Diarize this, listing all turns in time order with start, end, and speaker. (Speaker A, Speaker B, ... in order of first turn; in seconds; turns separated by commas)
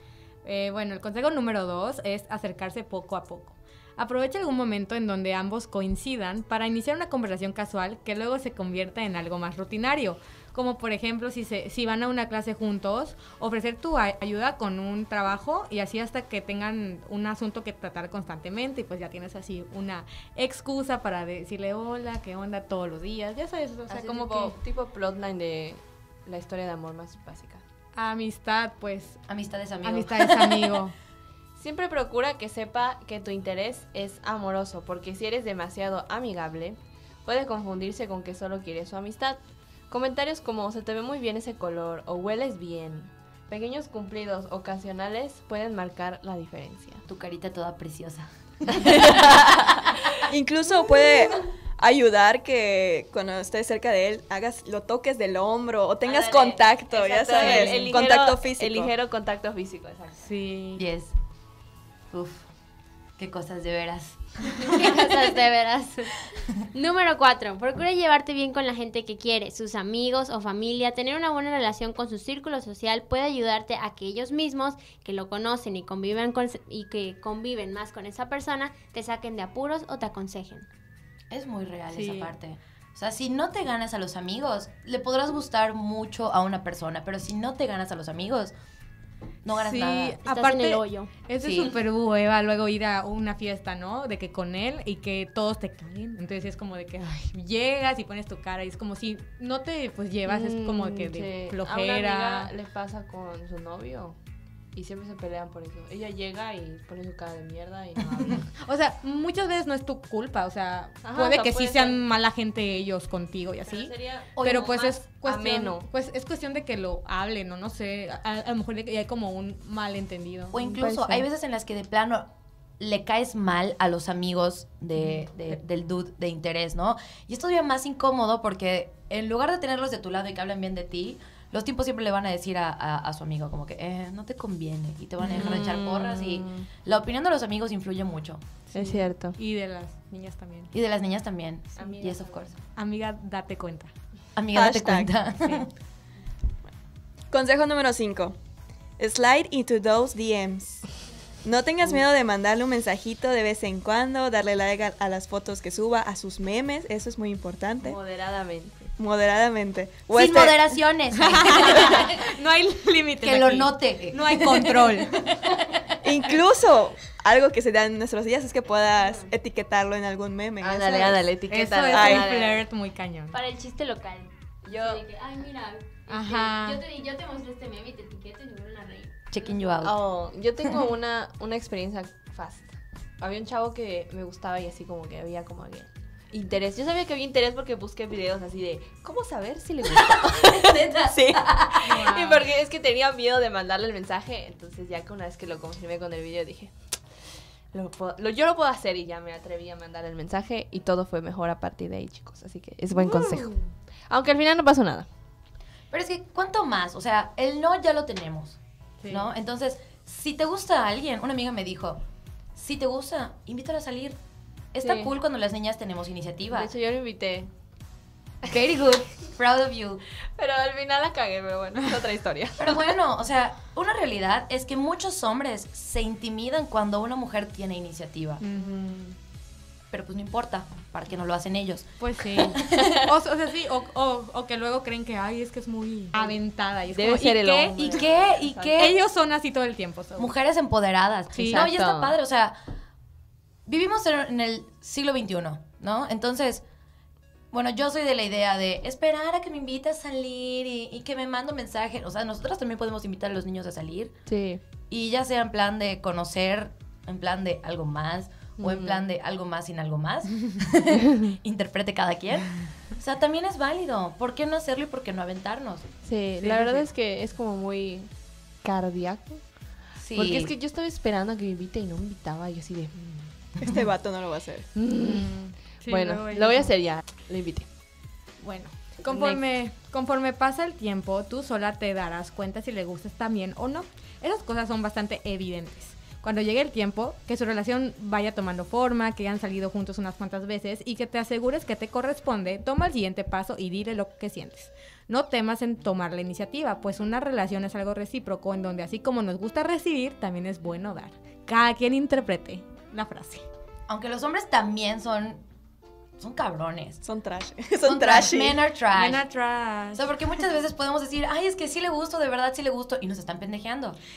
Speaker A: 0.4-24.6, Speaker B: 23.9-27.6, Speaker A: 27.9-29.2, Speaker C: 29.3-30.7, Speaker A: 29.8-30.9, Speaker B: 31.6-47.0, Speaker C: 47.1-49.9, Speaker B: 48.7-49.9, Speaker D: 50.3-58.9, Speaker B: 56.0-60.3, Speaker A: 57.4-57.8, Speaker A: 60.2-60.8, Speaker C: 60.8-61.1, Speaker C: 62.1-62.5, Speaker C: 63.2-65.2, Speaker E: 64.7-80.7, Speaker C: 81.3-88.5, Speaker A: 81.9-82.3, Speaker C: 89.4-90.2, Speaker A: 89.5-102.5, Speaker E: 90.2-91.1, Speaker C: 91.4-91.8, Speaker B: 100.2-104.2, Speaker B: 104.7-108.5, Speaker A: 108.6-120.6, Speaker B: 111.0-112.0, Speaker B: 113.7-115.9, Speaker C: 114.4-114.8, Speaker C: 120.5-122.3, Speaker B: 120.6-121.2, Speaker C: 122.8-138.4, Speaker A: 125.0-125.6, Speaker B: 135.2-136.7, Speaker B: 138.7-139.4, Speaker A: 138.7-140.7, Speaker C: 140.7-142.5, Speaker B: 141.8-142.5, Speaker A: 142.8-143.9, Speaker C: 144.3-145.7, Speaker D: 144.5-145.1, Speaker D: 147.3-148.4, Speaker D: 149.0-150.8, Speaker D: 151.4-158.0, Speaker B: 157.8-158.9, Speaker D: 159.0-160.7, Speaker C: 160.1-162.3, Speaker A: 161.2-165.5, Speaker C: 163.2-165.1, Speaker D: 166.0-171.2, Speaker E: 169.0-169.3, Speaker B: 170.6-172.6, Speaker A: 171.5-173.3, Speaker D: 171.9-172.2, Speaker E: 173.3-179.6, Speaker B: 174.7-175.0, Speaker A: 176.1-176.8, Speaker C: 179.3-180.0, Speaker B: 179.8-205.1, Speaker C: 189.9-191.9, Speaker A: 191.8-192.4, Speaker A: 202.9-203.7, Speaker C: 205.9-208.6, Speaker A: 209.0-209.3, Speaker C: 209.1-212.0, Speaker C: 212.6-214.2, Speaker C: 214.7-216.7, Speaker B: 214.8-215.1, Speaker B: 216.4-217.5, Speaker C: 218.4-220.0, Speaker B: 220.3-222.9, Speaker C: 222.6-228.4, Speaker A: 228.4-229.1, Speaker B: 228.5-228.9, Speaker C: 229.9-232.9, Speaker A: 232.0-238.0, Speaker B: 236.1-238.9, Speaker C: 237.8-238.9, Speaker A: 238.8-240.3, Speaker C: 240.2-242.6, Speaker A: 241.3-241.7, Speaker B: 241.4-242.2, Speaker C: 243.7-246.6, Speaker C: 247.5-254.1, Speaker B: 254.3-254.6, Speaker C: 254.9-265.9, Speaker B: 258.6-259.0, Speaker B: 266.0-268.1, Speaker A: 266.4-266.9, Speaker B: 268.6-273.3, Speaker C: 270.0-270.5, Speaker D: 273.6-274.7, Speaker B: 274.8-277.7, Speaker A: 275.0-276.7, Speaker A: 278.4-303.4, Speaker B: 279.0-279.4, Speaker C: 303.9-305.4, Speaker C: 306.2-307.0, Speaker D: 307.0-308.6, Speaker C: 307.8-309.2, Speaker A: 308.9-310.1, Speaker C: 309.9-314.0